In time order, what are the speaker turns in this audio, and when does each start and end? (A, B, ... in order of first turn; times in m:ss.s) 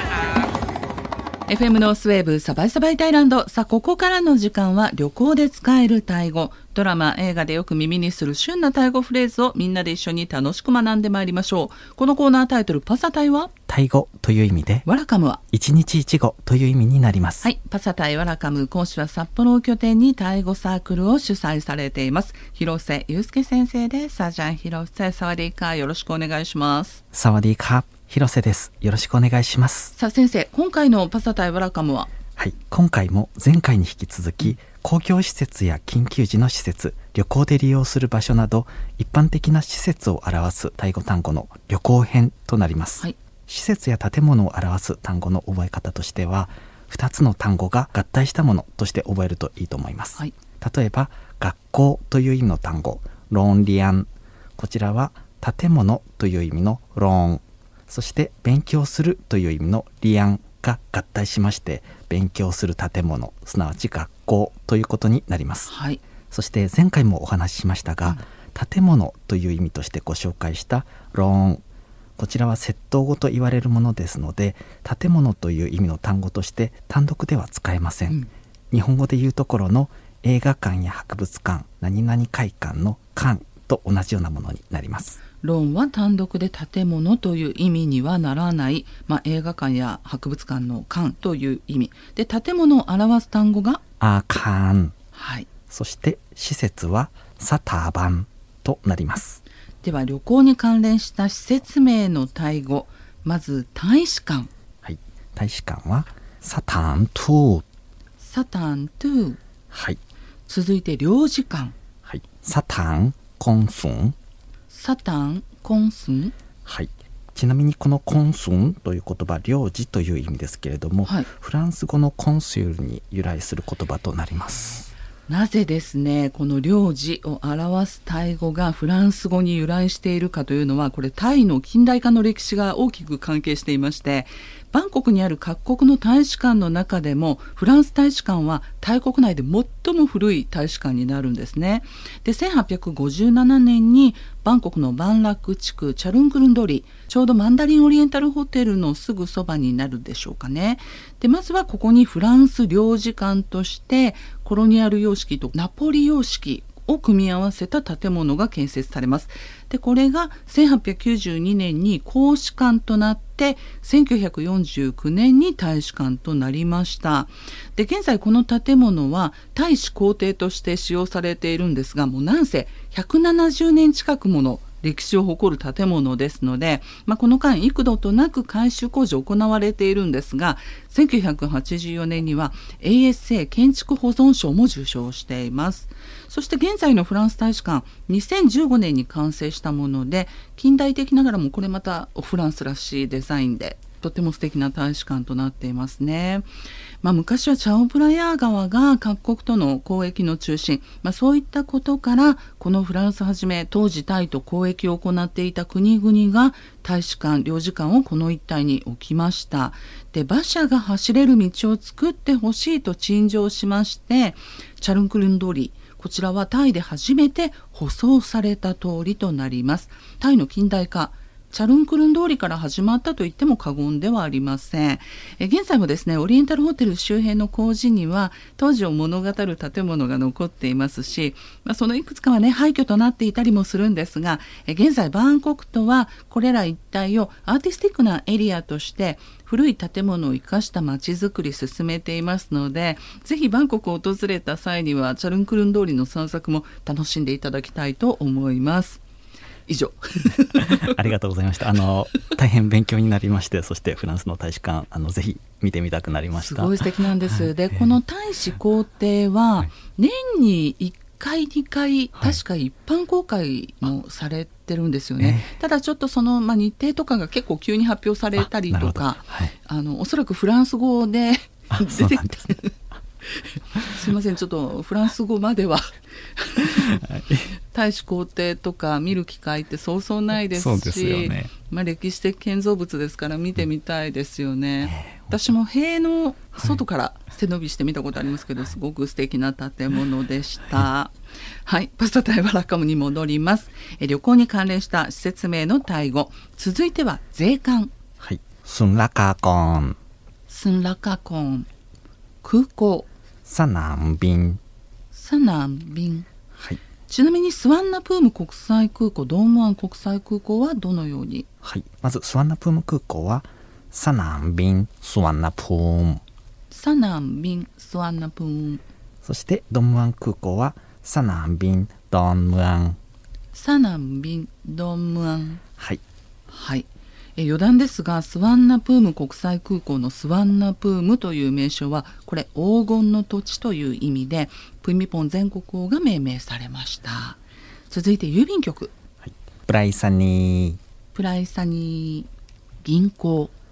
0:01.5-0:13.5 A
0:13.7-0:14.8 B
0:14.8-0:15.4 A
0:15.5-0:17.5 B
0:17.4-0:27.0 A
0:27.1-0:29.9 B
0:29.9-0:32.1 A
0:32.4-1:05.7 B
1:05.6-1:06.0 A
1:06.3-1:11.6 B
1:12.2-1:25.2 B
1:25.4-1:33.8 A
1:34.0-1:35.0 B
1:35.1-1:35.5 A
1:35.7-1:39.4 B
1:39.8-1:44.5 A
1:44.8-1:47.6 B
1:48.2-1:49.4 A
1:49.7-1:50.0 B
1:50.5-1:51.8 A
1:52.0-1:54.2 B
1:54.7-1:56.3 A
1:56.6-2:04.9 B
2:05.3-3:16.5 A
3:17.0-4:09.0 A
4:09.7-4:11.0 A
4:10.6-4:16.8 B
4:16.3-4:32.8 A
4:25.2-4:25.5 B
4:28.4-4:29.5 B
4:31.7-4:32.5 B
4:33.4-4:37.0 A
4:36.7-4:37.5 B
4:37.6-4:57.9 A
4:40.5-4:41.5 B
4:44.8-4:45.4 B
4:58.2-5:00.0 B
5:00.5-5:01.7 A
5:02.4-5:03.1 A
5:03.4-5:04.6 B
5:05.1-5:06.3 A
5:07.1-5:11.4 A
5:11.6-5:16.2 B
5:16.7-5:18.8 A
5:19.2-5:23.0 B
5:23.5-5:25.6 A
5:26.5-5:38.9 A
5:39.2-5:40.8 B
5:41.1-5:42.3 A
5:42.8-5:43.5 A